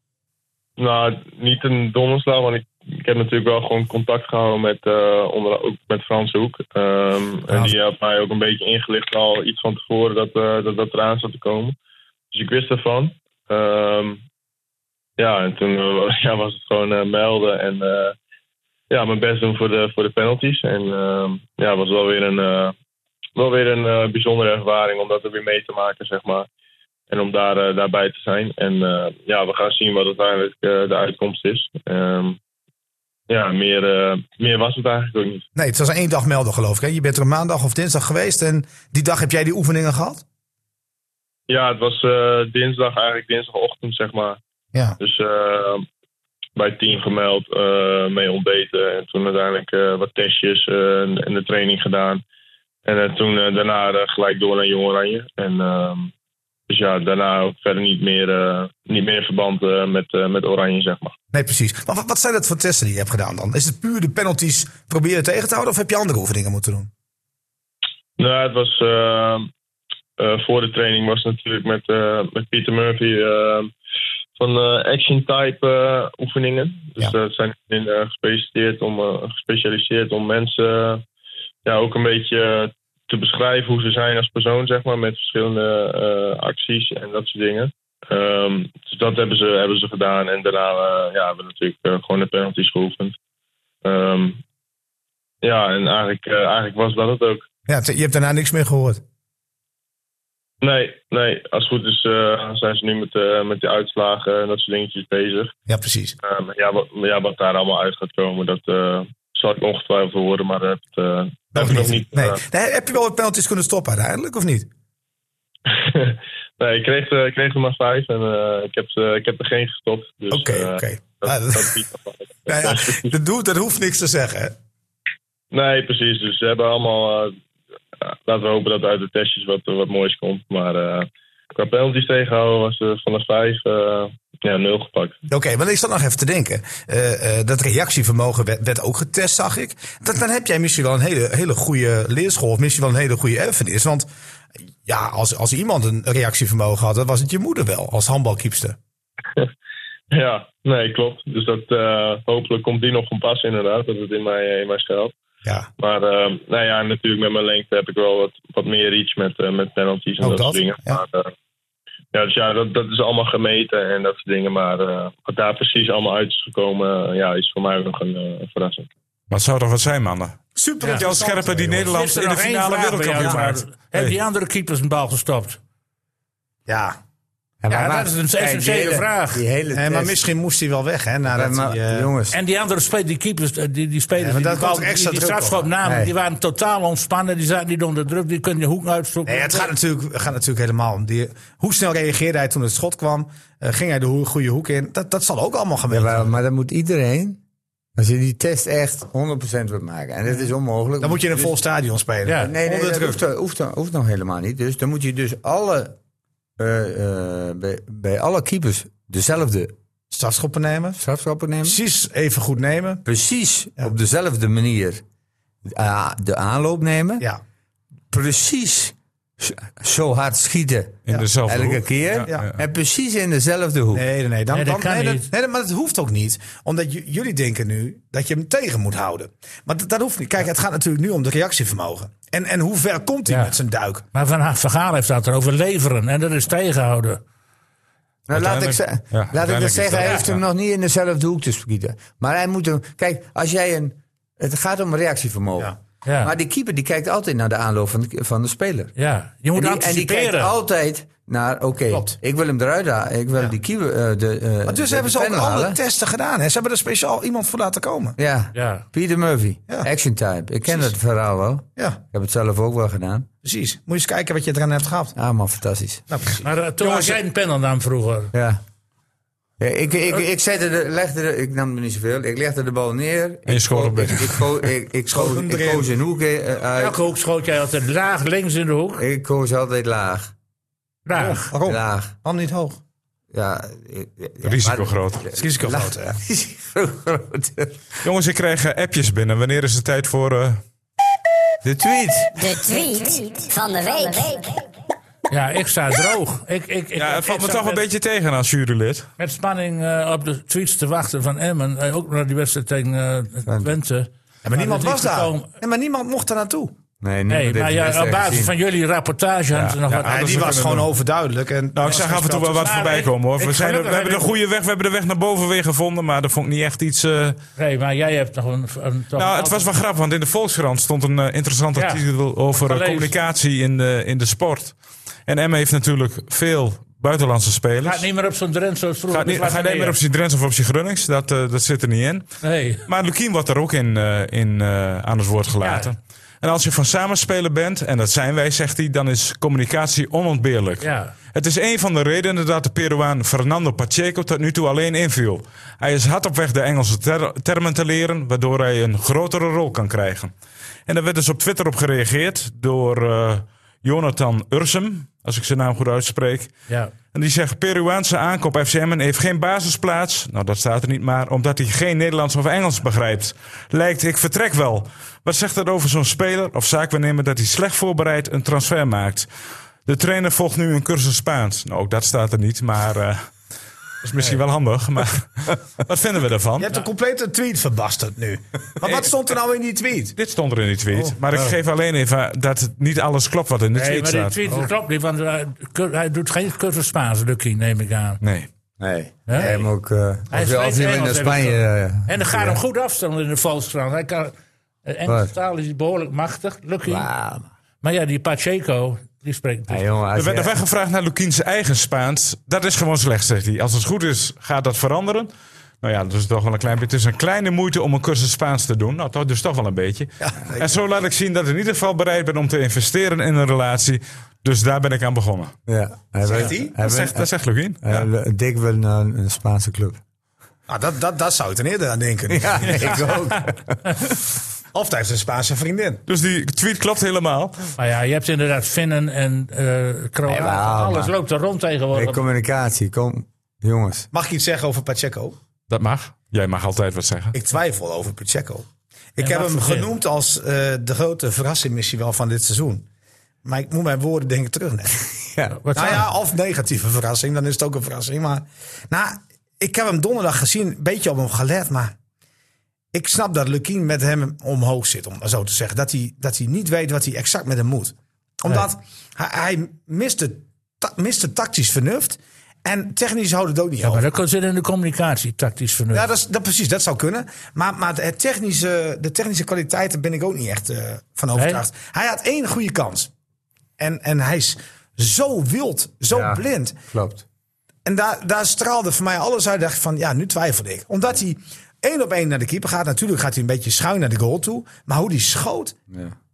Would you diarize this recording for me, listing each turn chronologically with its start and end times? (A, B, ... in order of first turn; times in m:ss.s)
0:00.8-0:11.8 A
0:12.3-0:14.2 A
0:15.2-0:18.2 A
0:18.9-0:22.7 A
0:23.4-0:26.5 A
0:27.1-0:32.4 A
0:33.3-0:35.4 A
0:35.5-0:40.2 B
0:41.5-0:44.4 A
0:45.0-0:45.8 A
0:46.6-0:52.2 A
0:52.8-0:56.1 A
0:56.7-1:01.1 A
1:01.3-1:06.9 B
1:08.2-1:09.5 A
1:10.2-1:13.7 A
1:14.4-1:21.0 A
1:21.6-1:33.1 A
1:33.8-1:34.4 A
1:35.4-1:37.4 A
1:37.7-1:39.0 B
1:40.6-1:45.5 A
1:45.7-1:46.2 B
1:46.2-1:52.4 A
1:51.5-1:54.7 B
1:55.7-2:03.1 A
2:00.3-2:01.8 B
2:02.5-2:04.5 B
2:05.5-2:07.4 A
2:08.0-2:15.2 A
2:15.3-2:24.1 B
2:24.8-2:28.8 B
2:30.1-2:35.1 A
2:35.8-2:41.3 A
2:40.2-2:41.0 B
2:42.1-2:48.9 A
2:49.3-2:54.2 C
2:50.6-2:52.0 B
2:51.9-2:55.6 D
2:56.7-2:57.0 B
2:57.6-3:00.2 E
2:57.7-2:59.4 D
2:59.7-3:02.1 B
3:01.2-3:02.4 E
3:02.3-3:09.7 D
3:04.2-3:05.6 B
3:05.8-3:06.1 E
3:09.2-3:16.3 B
3:15.9-3:17.4 E
3:18.0-3:21.5 E
3:21.0-3:23.2 B
3:22.2-3:22.5 D
3:22.4-3:26.0 E
3:26.6-3:29.7 E
3:30.1-3:31.0 B
3:31.0-3:31.8 E
3:31.6-3:33.0 B
3:33.0-3:35.0 E
3:35.6-3:37.3 E
3:38.1-3:44.0 E
3:41.1-3:42.5 C
3:43.9-3:54.0 B
3:44.5-3:45.3 D
3:53.3-3:53.6 D
3:54.1-3:57.2 D
3:58.3-4:08.9 E
3:58.3-4:00.4 C
4:06.0-4:06.3 D
4:09.0-4:10.5 D
4:09.5-4:15.8 E
4:14.7-4:18.2 B
4:18.2-4:23.3 E
4:18.5-4:18.8 D
4:20.6-4:20.9 B
4:23.4-4:25.1 B
4:25.2-4:26.1 E
4:26.1-4:27.2 B
4:26.4-4:28.3 D
4:28.3-4:28.6 E
4:29.6-4:37.0 E
4:33.5-4:34.5 C
4:35.1-4:35.9 B
4:36.7-4:39.0 D
4:39.0-4:40.3 E
4:41.0-4:41.5 D
4:41.1-4:42.8 B
4:41.6-4:42.1 E
4:43.3-4:48.0 E
4:44.4-4:45.2 C
4:45.3-4:46.2 B
4:48.0-4:50.6 C
4:51.6-4:52.4 E
4:52.3-4:54.6 F
4:55.3-4:57.8 D
4:57.0-4:59.1 C
4:59.2-5:05.5 D
5:03.4-5:03.7 E
5:04.4-5:06.7 B
5:07.0-5:08.5 E
5:07.3-5:10.7 D
5:09.5-5:10.9 C
5:10.0-5:12.8 B
5:11.7-5:17.4 C
5:12.5-5:14.3 D
5:17.6-5:19.7 D
5:19.2-5:28.0 C
5:21.7-5:22.0 D
5:22.5-5:23.1 D
5:27.8-5:30.0 D
5:29.1-5:32.3 C
5:32.4-5:32.8 D
5:32.8-5:50.3 C
5:35.6-5:35.9 D
5:40.8-5:41.1 D
5:50.9-5:56.5 C
5:56.7-5:56.9 D
5:57.1-6:09.3 C
6:09.8-6:13.3 C
6:14.0-6:16.7 C
6:14.1-6:14.4 B
6:16.6-6:20.1 B
6:18.8-6:19.1 C
6:20.2-6:24.4 C
6:23.7-6:28.2 D
6:28.2-6:28.5 C
6:28.8-6:32.6 E
6:29.3-6:29.6 D
6:30.3-6:34.3 D
6:34.8-6:37.1 D
6:35.0-6:35.3 E
6:36.8-6:37.5 E
6:37.8-6:39.8 D
6:39.7-6:40.5 E
6:40.1-6:45.3 C
6:45.8-6:55.5 C
6:50.2-6:50.8 B
6:55.7-6:57.3 E
6:56.2-6:56.8 B
6:56.3-6:58.1 C
6:57.8-7:00.0 E
7:00.7-7:03.3 B
7:02.3-7:04.2 E
7:04.7-7:06.0 B
7:06.1-7:07.7 C
7:07.8-7:12.2 D
7:10.2-7:11.1 E
7:11.9-7:14.1 E
7:14.1-7:15.4 B
7:15.7-7:17.3 C
7:17.3-7:22.8 B
7:19.2-7:19.9 D
7:23.4-7:25.0 B
7:25.3-7:25.6 E
7:25.6-7:26.0 D
7:25.7-7:31.9 B
7:32.9-7:44.1 B
7:43.8-7:46.1 D
7:45.9-7:53.1 B
7:51.4-7:51.6 D
7:53.8-7:56.8 B
7:56.1-7:57.2 E
7:57.8-8:05.8 B
8:05.9-8:06.1 E